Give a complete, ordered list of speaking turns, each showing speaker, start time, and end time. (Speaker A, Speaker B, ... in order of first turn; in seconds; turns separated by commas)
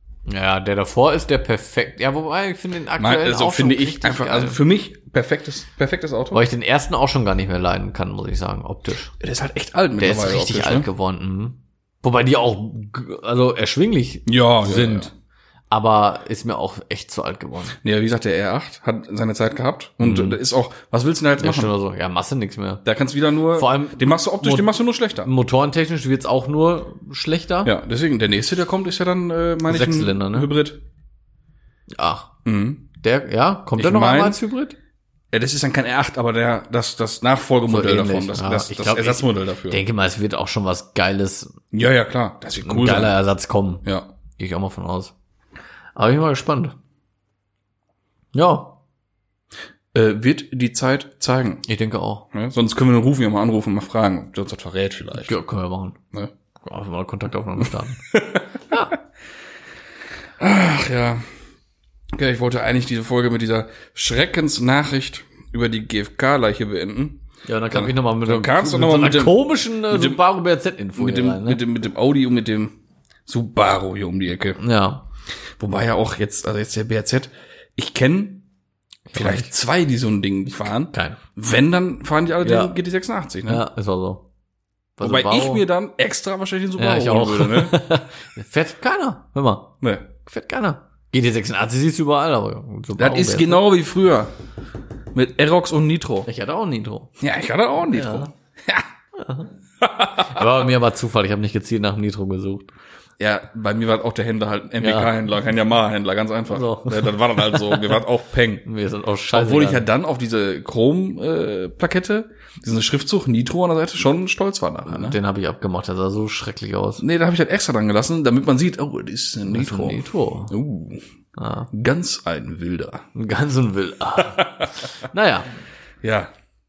Speaker A: 0.3-4.6, Speaker B: 3.0-6.4, Speaker A: 6.3-9.1, Speaker B: 9.2-10.9, Speaker A: 10.0-15.1, Speaker B: 14.3-15.1, Speaker A: 15.7-17.8, Speaker B: 17.8-21.7, Speaker A: 20.0-20.4, Speaker A: 21.4-22.8, Speaker B: 22.9-25.3, Speaker A: 23.5-27.7, Speaker B: 27.6-30.8, Speaker A: 29.6-30.5, Speaker A: 32.0-32.3, Speaker B: 32.5-32.9, Speaker A: 33.0-34.8, Speaker B: 33.8-34.4, Speaker B: 35.3-39.8, Speaker A: 37.7-41.6, Speaker B: 41.7-43.2, Speaker A: 42.6-43.9, Speaker A: 44.4-45.1, Speaker A: 46.0-46.8, Speaker A: 48.3-48.7, Speaker B: 49.9-51.6, Speaker A: 51.7-52.3, Speaker B: 52.3-55.4, Speaker A: 55.2-56.0, Speaker A: 56.6-58.0, Speaker B: 58.1-58.5, Speaker A: 58.7-59.0, Speaker B: 60.4-61.3, Speaker B: 62.1-70.2, Speaker A: 67.5-71.6, Speaker B: 71.0-72.7, Speaker B: 73.3-74.6, Speaker A: 74.6-75.0, Speaker B: 75.6-78.5, Speaker A: 79.1-79.5, Speaker B: 79.1-83.7, Speaker A: 80.9-81.2, Speaker A: 82.4-82.7, Speaker A: 83.5-84.2, Speaker A: 85.0-85.6, Speaker B: 85.0-87.8, Speaker A: 86.8-89.7, Speaker B: 89.8-90.1, Speaker A: 90.2-93.6, Speaker B: 93.0-94.3, Speaker B: 95.1-96.3, Speaker A: 96.3-97.1, Speaker B: 97.2-98.9, Speaker A: 97.9-98.3, Speaker A: 99.2-99.5, Speaker B: 99.8-100.4, Speaker A: 100.2-102.7, Speaker B: 103.2-108.7, Speaker A: 104.8-105.1, Speaker A: 106.5-108.0, Speaker A: 108.6-109.9, Speaker B: 109.3-115.2, Speaker A: 114.9-117.0, Speaker B: 117.0-121.0, Speaker A: 119.5-120.5, Speaker A: 121.4-121.7, Speaker B: 121.7-123.1, Speaker A: 123.2-125.5, Speaker B: 124.4-124.7, Speaker B: 126.0-126.3